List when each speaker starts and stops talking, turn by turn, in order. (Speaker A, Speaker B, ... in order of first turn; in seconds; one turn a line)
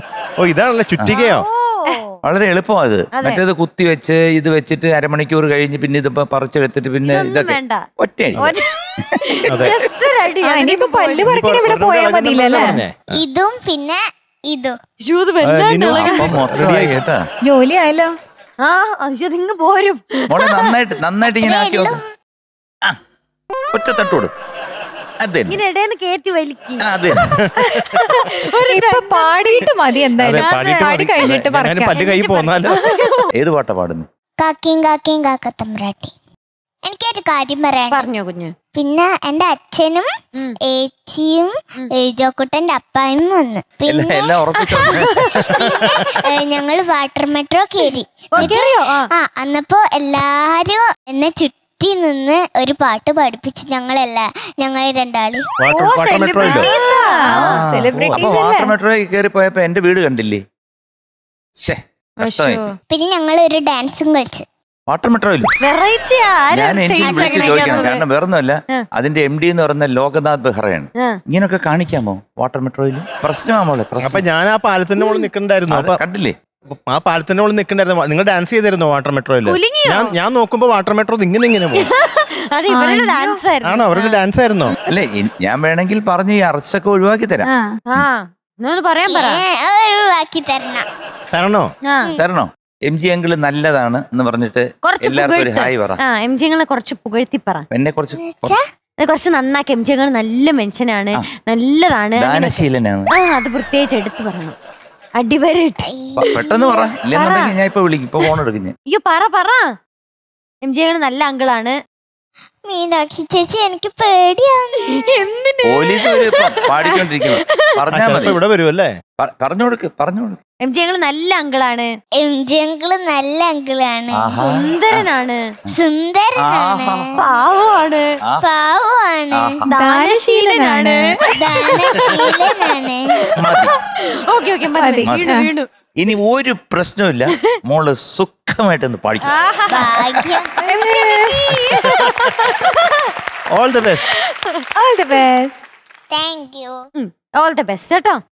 Speaker A: 0.4-1.4
Speaker B: 1.1-2.1
Speaker C: 2.2-9.7
Speaker B: 3.1-3.4
Speaker B: 7.0-7.8
Speaker B: 8.3-8.7
Speaker B: 9.3-11.2
Speaker A: 9.5-9.7
Speaker D: 10.4-12.8
Speaker A: 11.2-13.1
Speaker E: 13.1-14.8
Speaker B: 15.0-16.3
Speaker A: 15.4-17.0
Speaker C: 15.9-17.2
Speaker D: 17.4-18.1
Speaker B: 18.6-20.7
Speaker C: 20.3-22.0
Speaker E: 21.2-22.0
Speaker C: 23.7-24.3
Speaker C: 25.2-25.6
Speaker B: 25.5-26.8
Speaker C: 26.8-27.4
Speaker A: 27.1-28.0
Speaker B: 28.3-29.6
Speaker D: 28.7-32.1
Speaker A: 30.2-32.9
Speaker B: 30.3-31.0
Speaker B: 32.0-33.3
Speaker C: 33.3-34.1
Speaker E: 34.4-36.1
Speaker E: 36.8-38.1
Speaker B: 37.9-38.5
Speaker E: 38.7-40.1
Speaker E: 40.7-55.5
Speaker C: 43.9-45.5
Speaker B: 44.7-45.7
Speaker B: 48.3-49.1
Speaker A: 55.6-56.7
Speaker B: 55.7-57.6
Speaker D: 56.4-58.7
Speaker C: 57.3-60.4
Speaker A: 57.9-58.2
Speaker C: 61.6-62.6
Speaker B: 62.2-62.7
Speaker E: 62.9-64.5
Speaker C: 64.9-65.5
Speaker B: 65.6-68.0
Speaker C: 66.5-74.2
Speaker E: 67.0-67.9
Speaker A: 74.0-76.0
Speaker C: 75.7-76.3
Speaker A: 76.7-81.9
Speaker B: 79.5-80.1
Speaker B: 81.8-84.8
Speaker D: 82.7-83.4
Speaker A: 83.6-84.8
Speaker C: 84.9-87.5
Speaker D: 87.4-87.8
Speaker B: 87.9-89.4
Speaker E: 89.0-90.8
Speaker A: 91.3-91.7
Speaker B: 91.9-92.1
Speaker C: 92.2-96.0
Speaker B: 94.8-97.7
Speaker C: 97.7-98.6
Speaker E: 98.2-98.6
Speaker B: 99.0-104.5
Speaker C: 102.2-103.1
Speaker B: 105.2-105.8
Speaker E: 105.9-106.9
Speaker C: 106.2-108.7
Speaker B: 107.1-107.5
Speaker B: 108.9-109.7
Speaker B: 110.6-111.8
Speaker E: 112.7-115.0
Speaker B: 115.1-117.8
Speaker C: 115.6-118.4
Speaker A: 117.9-118.9
Speaker C: 119.2-120.4
Speaker B: 120.6-121.9
Speaker E: 122.2-124.3
Speaker C: 124.1-125.0
Speaker B: 124.3-125.4
Speaker E: 125.7-127.2
Speaker C: 126.4-127.2
Speaker B: 127.2-128.1
Speaker E: 128.4-129.6
Speaker C: 129.3-129.7
Speaker B: 129.7-131.2
Speaker D: 129.7-131.2
Speaker E: 131.3-133.2
Speaker B: 131.7-132.5
Speaker C: 133.3-133.7
Speaker B: 133.4-133.7
Speaker B: 134.3-135.7
Speaker D: 134.8-135.5
Speaker C: 135.0-135.3
Speaker C: 136.0-139.3
Speaker B: 139.3-142.9
Speaker E: 139.7-140.5
Speaker D: 140.7-141.3
Speaker A: 143.5-144.1
Speaker D: 144.8-145.7
Speaker E: 146.1-146.8
Speaker B: 147.0-148.2